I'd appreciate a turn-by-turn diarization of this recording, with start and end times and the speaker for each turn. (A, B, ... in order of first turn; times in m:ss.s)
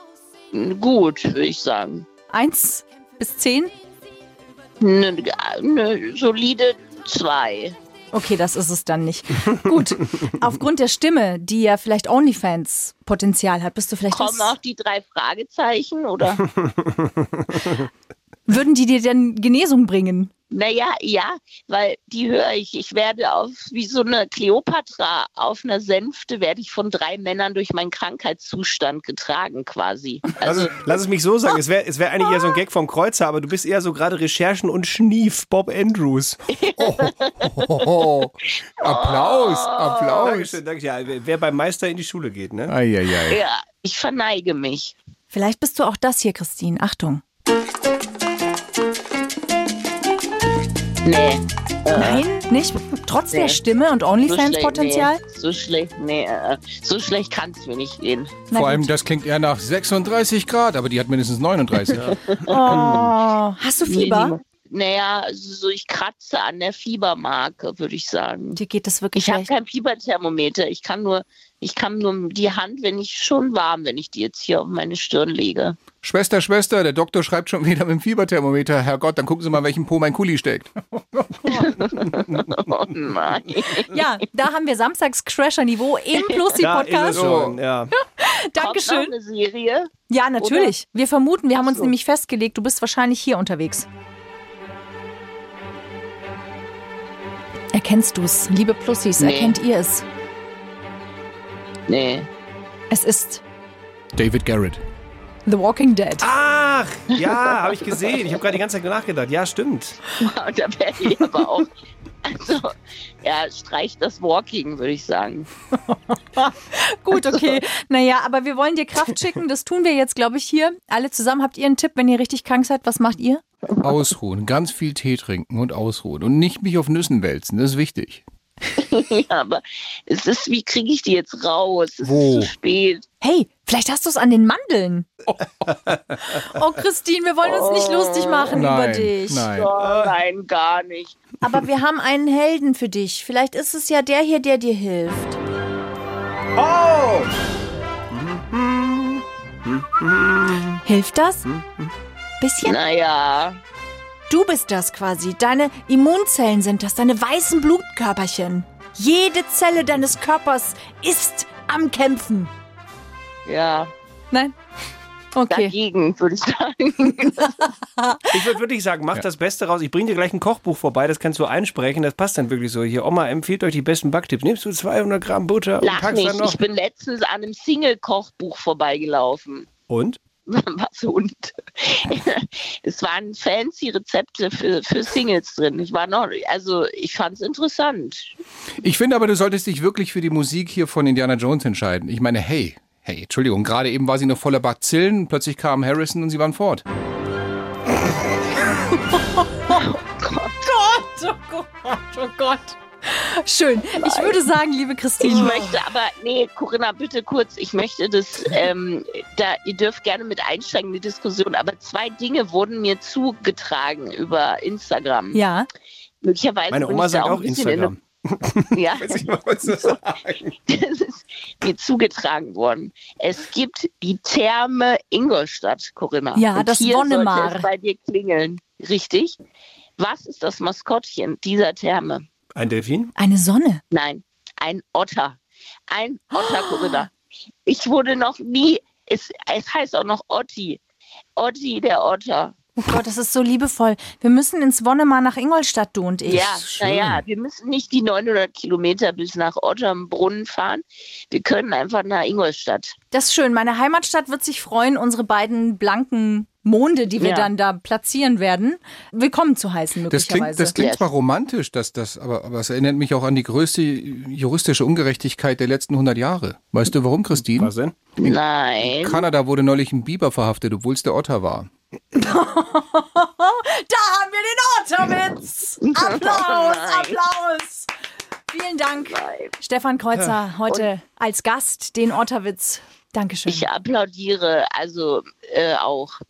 0:00.5-0:02.0 A
0:02.3-0:03.7 B
0:04.8-0:07.7 A
0:08.1-0:14.5 B
0:14.1-0:16.5 A
0:16.8-0:17.4 C
0:18.5-0:20.3 B
0:20.5-0:30.9 A
0:30.4-0:36.4 C
0:36.5-0:37.8 A
0:36.8-0:40.6 D
0:38.8-0:40.3 A
0:40.2-0:42.7 C
0:42.7-0:43.4 D
0:43.3-0:45.0 A
0:45.3-0:47.2 B
0:51.0-0:52.2 A
0:52.0-0:55.2 B
0:53.3-0:53.6 A
0:54.2-0:58.4 A
0:58.5-0:58.9 B
0:58.5-1:02.1 D
1:01.9-1:03.0 C
1:02.5-1:04.3 B
1:02.5-1:03.0 A
1:03.8-1:08.6 A
1:08.5-1:09.5 B
1:09.2-1:15.8 A
1:16.0-1:20.7 D
1:21.5-1:24.0 A
1:23.9-1:27.2 B
1:26.1-1:26.4 A
1:26.6-1:27.9 C
1:27.1-1:27.6 D
1:27.9-1:29.1 B
1:28.6-1:30.7 A
1:30.1-1:33.9 B
1:31.6-1:31.9 A
1:37.7-1:40.0 B
1:39.2-1:39.6 A
1:41.9-1:42.3 A
1:42.9-1:43.4 B
1:44.1-1:44.8 D
1:45.4-1:46.3 B
1:46.2-1:50.0 C
1:47.2-1:47.5 A
1:50.2-1:51.7 A
1:52.2-1:55.5 A
1:55.9-2:03.4 B
2:03.8-2:08.2 D
2:08.8-2:13.0 A
2:12.0-2:12.5 D
2:13.2-2:15.1 B
2:16.3-2:19.5 B
2:17.4-2:18.6 A
2:18.5-2:19.7 D
2:19.5-2:21.1 A
2:19.8-2:20.1 C
2:21.4-2:25.4 B
2:26.6-2:27.3 C
2:28.1-2:30.8 C
2:30.8-2:31.5 B
2:31.5-2:31.9 C
2:32.4-2:32.8 B
2:32.6-2:33.6 A
2:34.3-2:42.5 B
2:43.4-2:43.9 A
2:45.3-2:45.7 B
2:45.5-2:47.7 A
2:48.0-2:48.4 B
2:48.3-2:56.6 C
2:55.8-2:59.7 A
2:59.9-3:00.2 C
3:00.5-3:08.4 A
3:08.8-3:16.8 D
3:18.9-3:19.8 B
3:19.7-3:20.6 A
3:20.6-3:25.8 B
3:24.0-3:24.4 A
3:25.2-3:35.4 A
3:35.3-3:35.7 B
3:36.2-3:37.9 A
3:36.7-3:40.5 C
3:38.7-3:40.0 A
3:40.6-3:49.4 A
3:46.3-3:47.7 B
3:50.0-3:52.2 A
3:52.6-3:53.1 C
3:53.2-3:53.8 B
3:53.9-3:55.4 A
3:55.9-3:57.1 A
3:56.5-3:57.0 B
3:57.6-4:00.8 A
4:01.4-4:02.5 A
4:02.8-4:06.6 B
4:06.2-4:12.9 A
4:06.4-4:07.2 D
4:13.1-4:20.7 B
4:17.2-4:17.5 A
4:20.1-4:27.7 D
4:20.7-4:21.1 A
4:27.6-4:28.0 C
4:28.2-4:29.2 A
4:28.2-4:31.7 D
4:32.1-4:37.9 B
4:35.8-4:37.2 A
4:38.5-4:43.6 B
4:39.0-4:39.5 A
4:43.5-4:46.1 A